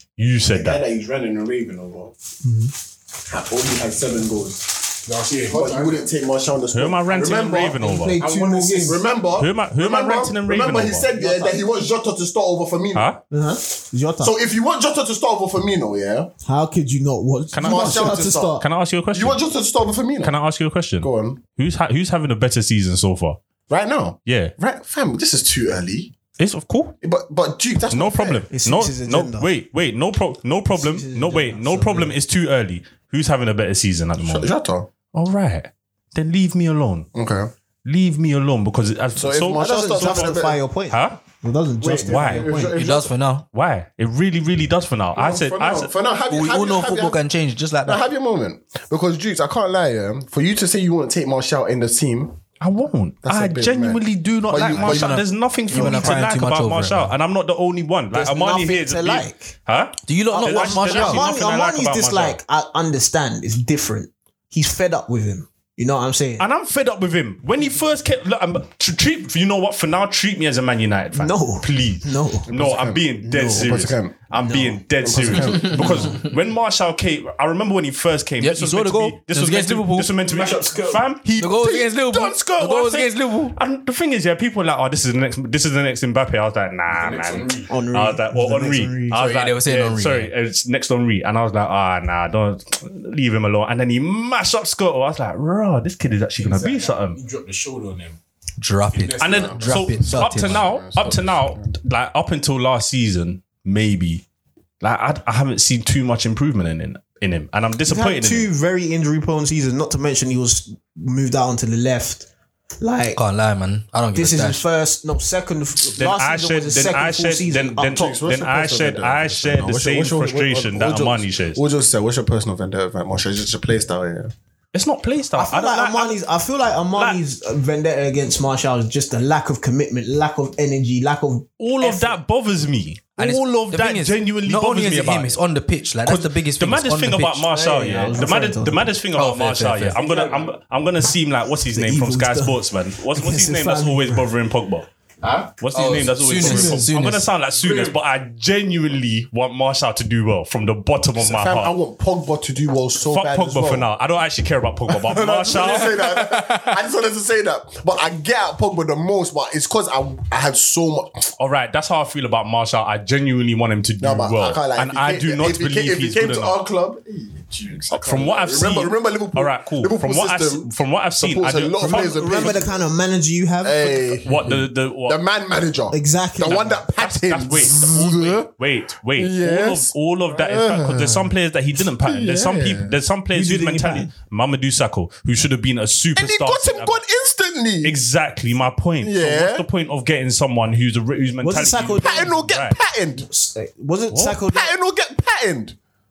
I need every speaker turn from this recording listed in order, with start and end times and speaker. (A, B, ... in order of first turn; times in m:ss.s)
0:00.2-0:00.8 A
0:00.5-0:02.1 B
0:02.4-0:02.7 C
0:03.2-0:04.9 B
0:05.0-0:06.0 D
0:05.5-0:07.8 B
0:06.7-0:08.2 A
0:07.6-0:09.0 C
0:08.2-0:09.0 D
0:08.8-0:13.1 B
0:09.3-0:11.1 A
0:11.1-0:11.6 C
0:12.9-0:13.2 A
0:13.3-0:14.3 C
0:14.2-0:16.3 B
0:16.4-0:18.6 C
0:17.5-0:19.4 A
0:17.6-0:18.6 B
0:19.1-0:20.3 B
0:20.2-0:23.4 A
0:21.0-0:21.4 B
0:23.7-0:26.1 B
0:24.2-0:24.5 A
0:26.4-0:26.9 A
0:27.0-0:28.4 B
0:27.9-0:34.5 A
0:28.5-0:29.5 C
0:30.7-0:32.1 C
0:34.2-0:34.9 B
0:35.1-0:37.1 A
0:37.1-0:37.5 B
0:37.8-0:40.3 A
0:39.2-0:40.6 B
0:39.5-0:42.8 C
0:40.9-0:41.2 A
0:41.8-0:43.1 B
0:42.0-0:42.5 A
0:42.7-0:43.4 E
0:43.5-0:45.9 A
0:45.1-0:47.2 B
0:46.3-0:48.0 E
0:47.8-0:52.4 B
0:52.6-1:02.4 A
0:53.2-0:55.2 B
0:54.7-0:57.1 E
0:55.7-0:56.2 C
0:58.1-0:59.5 C
1:00.0-1:01.3 E
1:00.3-1:06.4 C
1:06.4-1:37.2 A
1:11.1-1:12.5 C
1:12.5-1:14.1 B
1:13.3-1:13.6 C
1:14.3-1:15.4 C
1:15.0-1:16.2 B
1:18.4-1:20.1 E
1:20.2-1:21.2 D
1:21.3-1:23.6 E
1:21.4-1:21.9 B
1:26.9-1:27.7 D
1:27.7-1:29.2 C
1:29.1-1:30.3 E
1:36.4-1:38.2 D
1:38.6-1:40.7 E
1:38.9-1:39.8 D
1:39.2-1:44.2 A
1:39.4-1:41.7 B
1:44.8-1:48.5 A
1:47.8-1:52.3 C
1:52.8-1:53.2 C
1:53.1-1:54.6 E
1:54.1-1:58.0 C
1:55.9-2:01.6 A
1:57.8-2:04.3 B
2:04.7-2:06.2 A
2:05.4-2:12.2 C
2:06.9-2:07.2 A
2:11.6-2:15.4 A
2:13.2-2:17.6 E
2:16.0-2:24.9 A
2:17.5-2:18.9 C
2:19.1-2:20.0 E
2:19.9-2:20.6 D
2:21.7-2:22.6 C
2:23.1-2:24.3 C
2:25.2-2:25.5 D
2:25.6-2:31.7 A
2:25.7-2:27.3 E
2:26.3-2:26.9 C
2:27.6-2:28.0 D
2:31.2-2:33.9 B
2:33.0-2:36.0 A
2:34.9-2:41.3 B
2:41.4-2:46.6 A
2:44.0-2:52.8 B
2:47.9-2:52.6 A
2:51.8-2:54.2 C
2:53.6-2:58.5 B
2:54.2-2:55.2 A
2:55.9-2:56.8 C
2:56.4-3:07.0 A
2:59.2-3:01.3 B
3:02.0-3:02.9 B
3:03.3-3:04.1 C
3:06.2-3:08.0 B
3:07.8-3:12.8 A
3:09.0-3:09.6 B
3:11.4-3:12.3 C
3:11.9-3:13.3 B
3:13.2-3:14.7 C
3:14.1-3:14.4 A
3:14.5-3:15.8 B